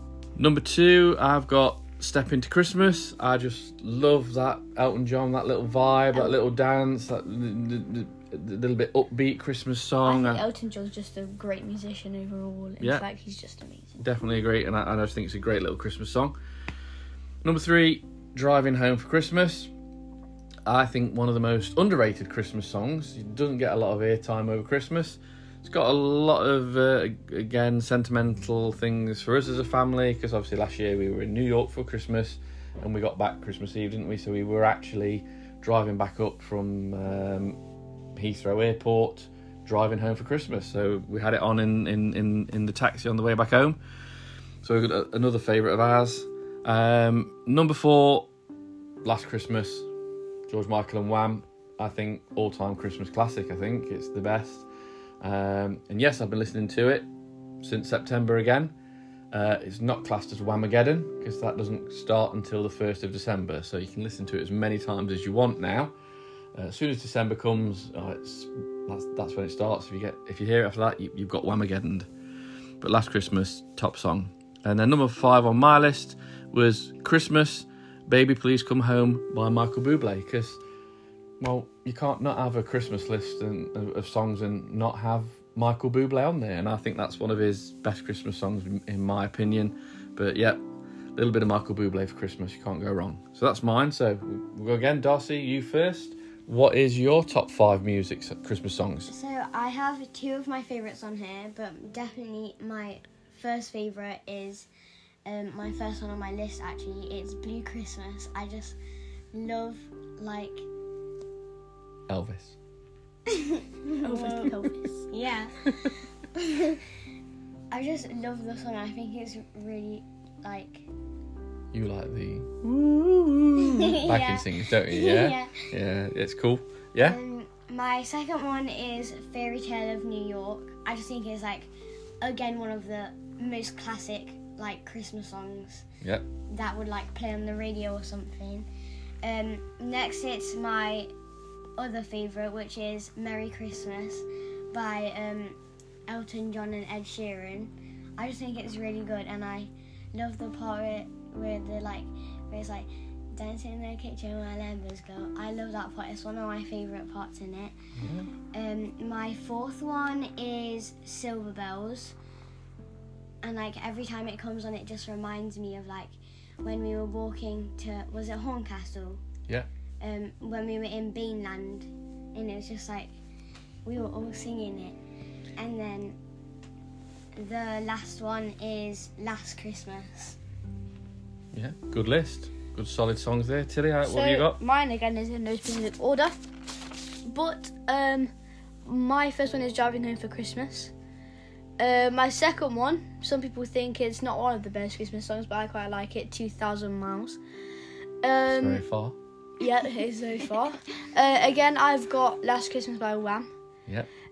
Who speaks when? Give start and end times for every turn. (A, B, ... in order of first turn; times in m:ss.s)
0:00.4-0:10.4 A
0:10.0-0:14.0 B
0:14.0-0:16.4 A
0:17.4-0:19.7 A
0:20.6-0:37.6 A
0:38.1-0:43.8 A
0:44.6-0:48.3 A
0:49.0-0:49.9 A
0:50.5-0:54.7 A
0:55.2-0:57.1 A
0:57.6-0:58.7 A
0:59.3-1:05.9 A
1:06.6-1:12.1 A
1:12.8-1:20.6 A
1:21.4-1:30.6 A
1:31.2-1:39.1 A
1:39.1-1:44.7 C
1:45.2-1:48.8 C
1:49.3-1:50.7 C
1:52.1-1:52.6 A
1:53.3-1:54.5 C
1:54.0-1:55.1 B
1:55.1-1:55.6 C
1:55.6-1:55.9 A
1:56.3-1:56.9 C
1:57.7-2:00.9 C
2:01.7-2:07.2 A
2:03.8-2:05.7 C
2:07.0-2:11.7 C
2:12.2-2:15.9 C
2:16.5-2:18.7 C
2:19.2-2:21.1 C
2:21.8-2:37.7 C
2:38.0-2:38.3 A
2:38.5-2:42.2 C
2:43.4-2:49.2 C
2:50.0-2:53.2 C
2:53.8-2:55.0 C
2:55.6-2:56.2 C
2:57.4-3:00.4 C
3:01.5-3:04.6 A
3:04.1-3:06.4 B
3:07.2-3:08.3 B
3:08.8-3:10.9 B
3:11.8-3:17.4 B
3:18.2-3:18.8 B
3:18.4-3:19.2 A
3:19.6-3:23.5 B